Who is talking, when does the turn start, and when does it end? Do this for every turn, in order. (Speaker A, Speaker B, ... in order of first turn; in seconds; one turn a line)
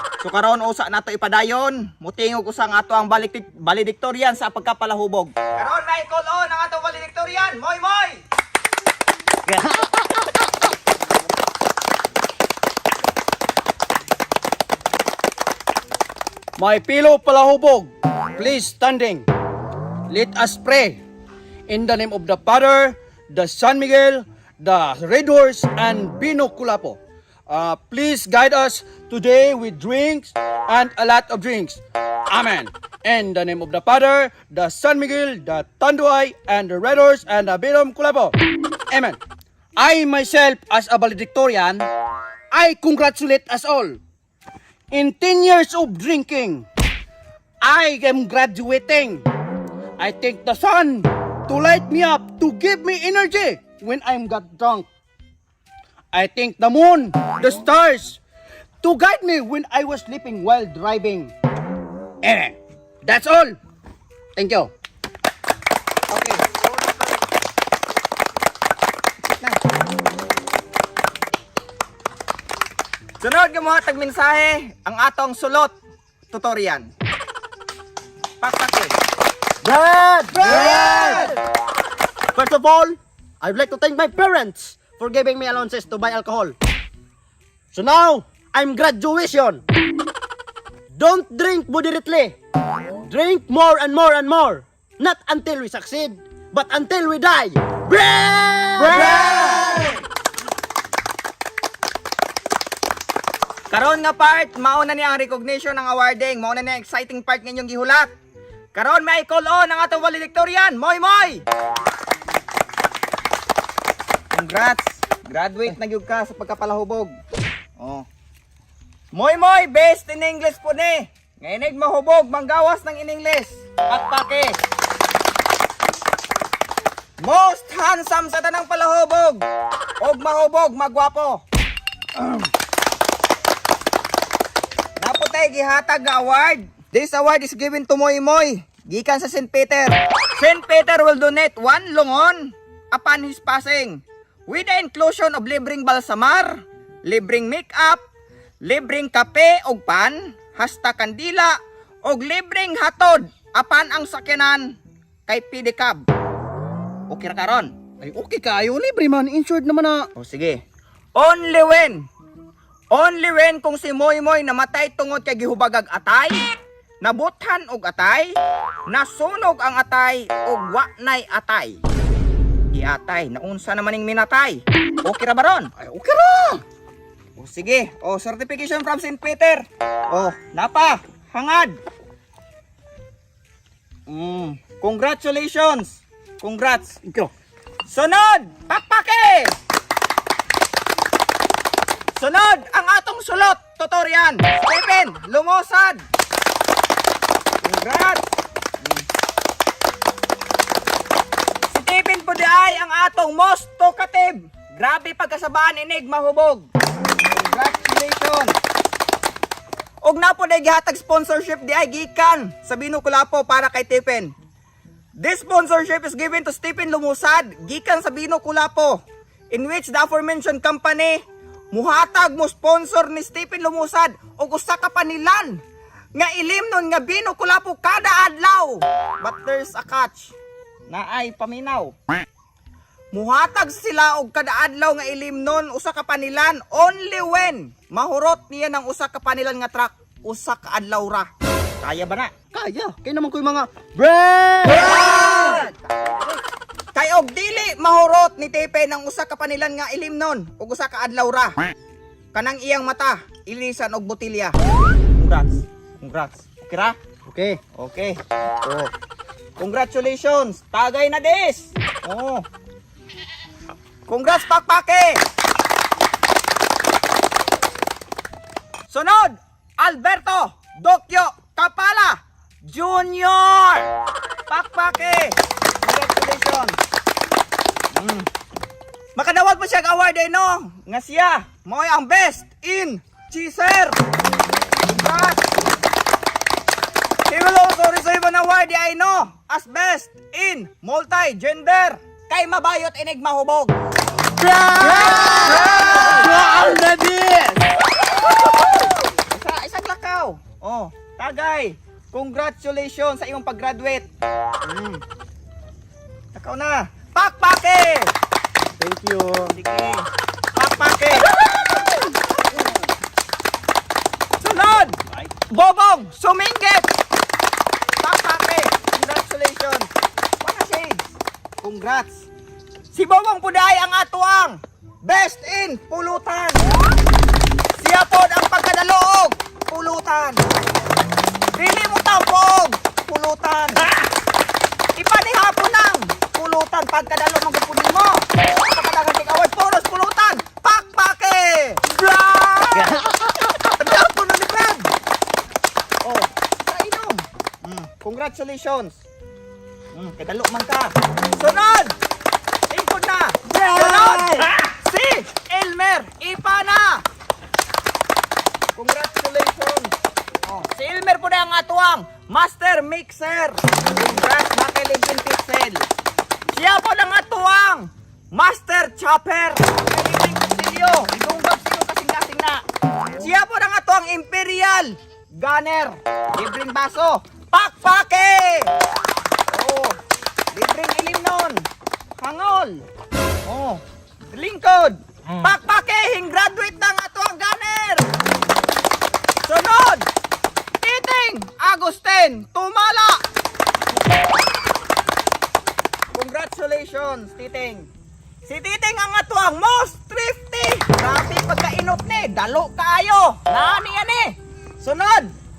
Speaker A: 0.2-8.2
Speaker B: 16.6-19.2
Speaker B: 20.1-21.0
Speaker B: 21.7-38.3
Speaker B: 38.9-39.2
Speaker B: 39.8-41.9
Speaker B: 42.5-44.0
Speaker B: 44.9-46.6
Speaker B: 47.6-49.2
Speaker B: 50.0-54.9
Speaker B: 56.1-58.2
Speaker B: 58.8-61.3
Speaker B: 62.2-63.6
Speaker B: 64.3-64.7
Speaker A: 66.1-66.7
Speaker A: 69.2-69.6
Speaker A: 73.2-75.7
Speaker A: 76.3-76.9
Speaker A: 78.4-78.9
Speaker C: 79.6-81.3
Speaker A: 80.3-81.3
Speaker C: 82.3-86.5
Speaker C: 87.7-89.6
Speaker C: 90.9-92.3
Speaker C: 93.0-99.8
Speaker A: 103.7-108.1
Speaker A: 108.7-111.4
Speaker A: 114.3-117.1
Speaker A: 117.8-118.0
Speaker A: 119.1-124.6
Speaker A: 127.2-129.4
Speaker A: 130.0-131.4
Speaker A: 135.0-148.0
Speaker A: 148.6-154.7
Speaker A: 155.3-156.0
Speaker A: 157.1-157.7
Speaker B: 158.0-160.0
Speaker A: 160.1-160.6
Speaker A: 161.1-162.0
Speaker A: 162.9-166.4
Speaker A: 167.0-168.3
Speaker A: 168.9-171.8
Speaker A: 172.7-175.7
Speaker B: 175.8-176.6
Speaker A: 177.4-181.8
Speaker A: 184.1-187.0
Speaker A: 187.9-189.5
Speaker A: 192.1-196.0
Speaker A: 197.6-198.2
Speaker A: 198.8-199.1
Speaker A: 201.7-206.7
Speaker A: 207.2-208.5
Speaker A: 210.0-214.3
Speaker A: 215.2-219.0
Speaker A: 219.5-221.2
Speaker A: 221.7-225.6
Speaker A: 226.1-230.3
Speaker A: 230.9-231.9
Speaker A: 233.1-241.3
Speaker A: 241.8-242.3
Speaker C: 242.5-245.6
Speaker A: 245.0-245.6
Speaker A: 246.9-251.5
Speaker A: 252.3-254.5
Speaker A: 255.2-256.9
Speaker C: 257.3-257.6
Speaker A: 257.8-258.9
Speaker A: 259.6-262.4
Speaker A: 264.1-265.2
Speaker A: 268.9-273.9
Speaker A: 274.5-276.8
Speaker A: 277.9-278.3
Speaker A: 279.1-284.0
Speaker A: 284.9-285.4
Speaker A: 287.3-293.7
Speaker C: 294.6-295.0
Speaker A: 294.8-296.3
Speaker B: 294.8-297.6
Speaker A: 298.0-304.1
Speaker A: 306.3-308.1
Speaker C: 308.8-309.5
Speaker A: 309.4-310.0
Speaker A: 310.5-311.3
Speaker A: 314.4-316.9
Speaker A: 318.0-319.9
Speaker A: 320.4-321.1
Speaker A: 321.6-322.3
Speaker A: 322.9-326.6
Speaker A: 327.8-330.4
Speaker A: 331.5-333.8
Speaker A: 334.9-344.9
Speaker A: 346.0-349.0
Speaker A: 349.9-351.9
Speaker A: 352.7-357.0
Speaker A: 358.7-359.9
Speaker A: 360.4-365.9
Speaker A: 366.5-378.7
Speaker A: 379.5-380.0
Speaker A: 380.5-381.6
Speaker A: 382.2-382.8
Speaker A: 383.4-388.1
Speaker A: 389.4-390.1
Speaker A: 390.8-393.2
Speaker A: 396.1-397.9
Speaker A: 398.4-405.3